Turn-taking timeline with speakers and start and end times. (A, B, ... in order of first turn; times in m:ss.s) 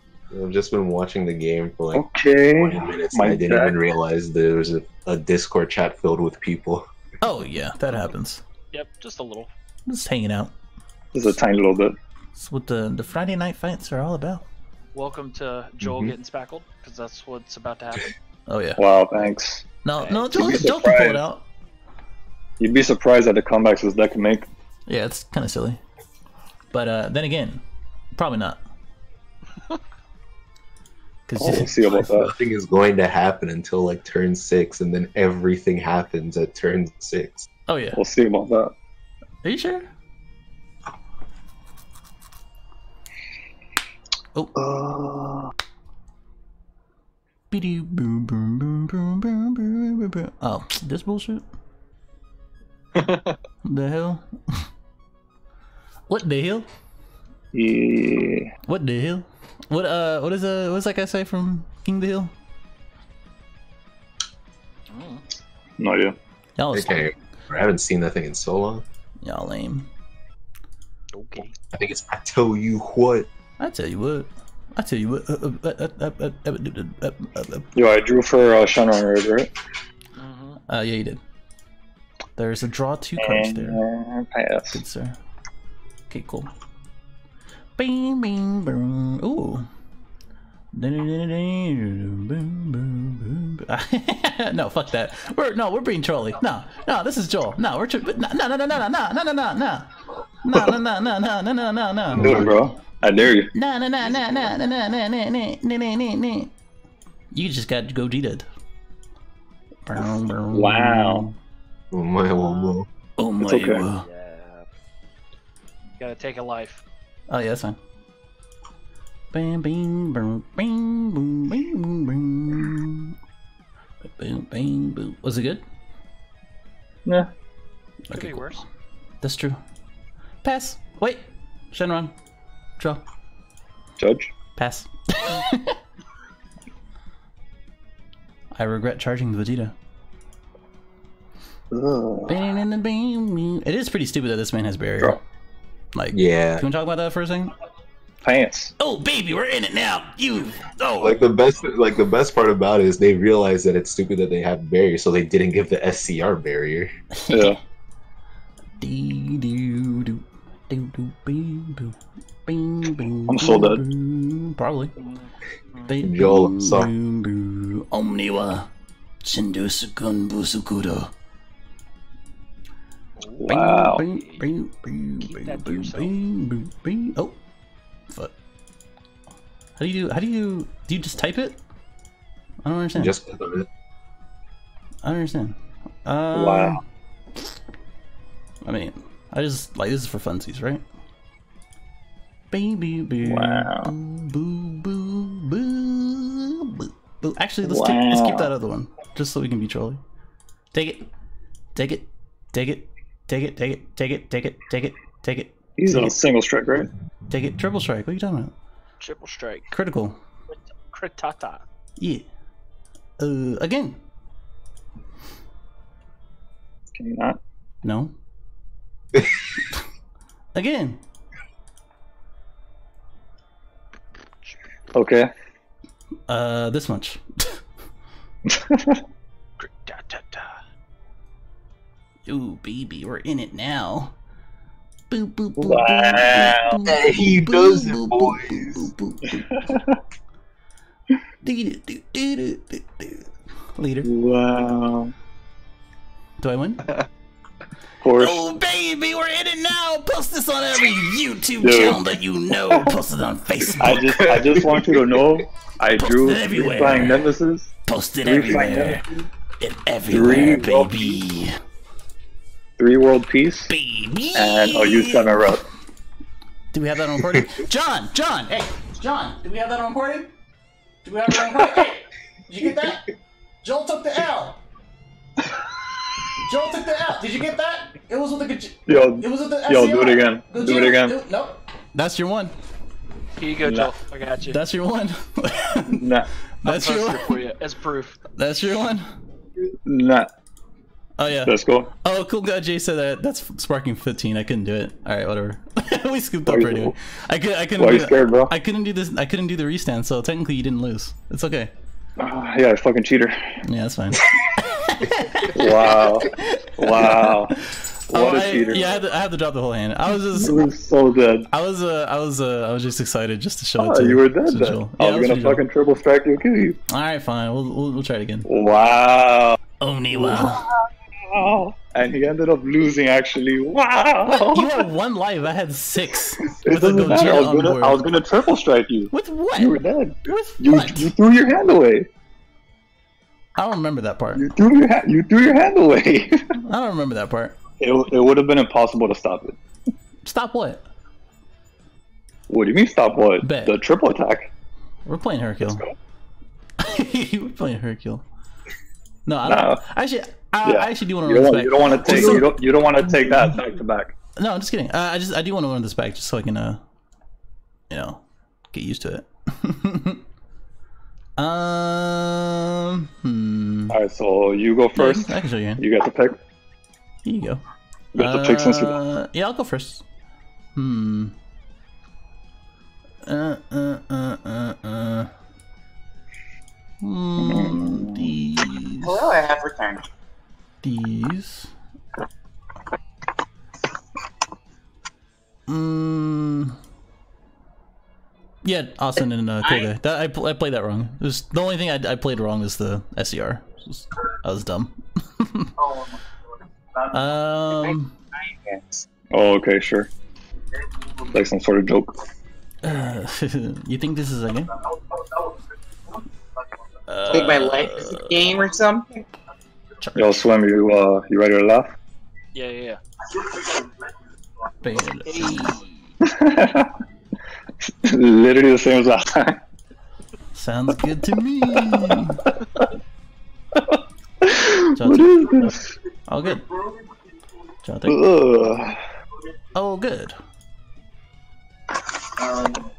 0:00.3-0:06.9 A
0:01.9-0:03.8 B
0:07.2-0:08.4 C
0:08.7-0:09.5 D
0:09.9-0:10.5 C
0:11.1-0:12.0 B
0:12.4-0:14.4 C
0:14.9-0:18.1 D
0:15.8-0:16.2 A
0:18.5-0:18.8 C
0:18.8-0:19.6 B
0:19.8-0:21.4 C
0:20.0-0:20.4 D
0:20.3-0:21.2 B
0:22.6-0:24.5 B
0:24.9-0:25.8 C
0:26.7-0:27.6 C
0:28.2-0:28.6 C
0:31.3-0:31.7 C
0:31.4-0:32.4 B
0:31.5-0:37.5 A
0:37.7-0:38.0 C
0:38.0-0:38.7 B
0:39.4-0:39.9 C
0:44.6-0:45.5 B
0:47.5-0:51.4 C
0:53.6-0:54.7 C
0:56.1-0:56.7 C
0:57.5-0:58.5 B
0:58.7-1:02.3 C
1:04.9-1:05.2 D
1:05.8-1:06.2 B
1:06.6-1:07.1 C
1:06.7-1:08.8 A
1:09.2-1:09.9 C
1:11.1-1:11.6 D
1:11.7-1:13.3 A
1:13.6-1:17.7 C
1:17.8-1:19.5 B
1:20.2-1:20.6 D
1:20.7-1:21.2 C
1:22.4-1:23.8 C
1:23.2-1:24.8 B
1:24.7-1:25.2 C
1:26.1-1:26.5 C
1:27.8-1:29.7 C
1:30.7-1:39.9 C
1:40.4-1:42.5 C
1:42.2-1:43.5 B
1:42.2-1:42.4 A
1:43.5-1:46.5 C
1:44.0-1:44.6 D
1:47.3-1:48.5 C
1:49.9-1:51.4 C
1:50.5-1:51.3 B
1:51.9-1:52.9 A
1:53.2-1:54.0 C
1:53.4-1:53.8 B
1:54.0-1:54.7 D
1:56.0-1:56.8 D
1:57.3-1:57.8 C
1:59.3-2:03.2 C
2:04.2-2:05.6 C
2:08.1-2:08.6 C
2:08.1-2:08.6 D
2:09.2-2:09.6 C
2:10.4-2:12.1 C
2:14.0-2:14.3 B
2:14.6-2:15.8 C
2:18.6-2:19.7 C
2:21.7-2:22.4 B
2:22.3-2:25.2 C
2:25.9-2:27.5 C
2:26.1-2:26.6 A
2:28.2-2:28.7 B
2:28.8-2:31.2 C
2:31.0-2:36.9 A
2:37.2-2:37.6 C
2:37.3-2:37.6 B
2:38.8-2:44.9 C
2:43.3-2:43.8 B
2:45.0-2:46.0 D
2:45.9-2:48.7 C
2:46.0-2:46.9 A
2:49.2-2:51.1 C
2:53.2-2:54.5 D
2:53.4-2:54.0 B
2:53.5-2:57.4 C
2:55.2-2:56.1 D
2:59.8-3:01.6 C
3:02.6-3:03.2 C
3:03.0-3:03.7 A
3:05.0-3:06.8 C
3:06.3-3:06.8 B
3:08.6-3:10.8 C
3:12.5-3:20.0 C
3:13.2-3:13.9 B
3:17.6-3:18.5 B
3:20.7-3:21.1 C
3:21.8-3:26.1 C
3:25.8-3:26.9 B
3:27.3-3:28.5 C
3:29.0-3:29.7 D
3:29.7-3:30.2 C
3:30.5-3:31.6 D
3:32.0-3:32.2 C
3:33.2-3:34.0 C
3:37.0-3:37.4 B
3:37.8-3:38.1 C
3:40.5-3:41.0 C
3:44.9-3:45.3 B
3:46.3-3:47.6 C
3:48.5-3:49.0 B
3:49.6-3:50.6 D
3:52.3-3:54.1 C
3:55.1-3:59.6 C
3:55.6-3:56.8 B
3:56.9-3:58.9 A
4:01.4-4:04.1 C
4:04.0-4:05.1 B
4:06.4-4:07.0 C
4:08.0-4:08.4 B
4:08.2-4:14.4 C
4:11.6-4:12.0 B
4:13.8-4:17.7 B
4:14.2-4:15.0 A
4:16.0-4:17.3 C
4:17.9-4:19.0 C
4:18.2-4:19.1 B
4:19.6-4:21.6 C
4:20.1-4:21.2 B
4:22.8-4:23.7 B
4:23.7-4:25.6 C
4:24.4-4:25.6 B
4:26.7-4:30.3 C
4:31.0-4:33.1 C
4:33.6-4:34.6 C
4:36.4-4:42.5 C
4:38.9-4:41.2 B
4:43.4-4:44.6 D
4:43.6-4:43.9 B
4:44.5-4:46.1 C
4:45.9-4:46.3 B
4:46.6-4:47.4 C
4:46.6-4:48.2 D
4:48.4-4:49.1 C
4:49.8-4:50.3 B
4:51.2-5:01.7 C
4:51.4-4:51.9 B
4:56.5-4:56.9 B
4:57.8-4:58.5 B
5:02.2-5:03.5 B
5:03.6-5:10.7 C
5:05.5-5:07.6 B
5:08.1-5:08.9 B
5:10.3-5:11.5 B
5:11.5-5:15.6 C
5:13.8-5:16.8 B
5:16.9-5:18.5 C
5:18.5-5:19.6 B
5:19.8-5:20.6 C
5:20.1-5:24.9 B
5:24.3-5:28.0 C
5:26.6-5:32.1 B
5:29.1-5:31.1 C
5:33.6-5:34.5 C
5:34.3-5:36.6 B
5:36.7-5:37.6 C
5:37.8-5:39.6 B
5:40.2-5:40.8 C
5:42.5-5:44.5 B
5:43.4-5:43.8 C
5:45.0-5:45.8 C
5:46.8-5:48.2 C
5:49.3-5:52.5 C
5:49.5-5:49.8 B
5:50.6-5:54.1 B
5:52.1-5:52.5 A
5:54.4-5:56.8 C
5:57.9-5:58.2 C
5:58.7-6:00.2 C
6:01.4-6:04.0 C
6:03.9-6:06.4 B
6:05.0-6:05.8 C
6:07.2-6:07.6 C
6:08.2-6:09.0 B
6:08.2-6:10.0 C
6:10.8-6:11.3 C
6:13.2-6:15.3 C
6:17.0-6:19.3 C
6:17.4-6:18.3 B
6:19.0-6:20.0 E
6:20.8-6:21.7 C
6:25.7-6:26.8 C
6:28.6-6:35.8 C
6:37.1-6:38.1 C
6:37.8-6:39.1 E
6:39.3-6:40.1 B
6:41.3-6:42.2 B
6:42.8-6:44.8 C
6:47.1-6:48.3 C
6:47.3-6:49.3 E
6:50.0-6:50.4 C
6:50.2-6:51.9 B
6:52.6-6:53.0 D
6:54.8-6:55.8 C
6:55.3-6:56.2 D
6:56.2-6:56.9 B
6:57.9-6:59.6 B
7:00.6-7:02.4 C
7:01.7-7:02.2 B
7:03.8-7:05.8 B
7:04.9-7:06.7 C
7:07.8-7:08.2 C
7:08.1-7:09.0 B
7:09.7-7:10.4 C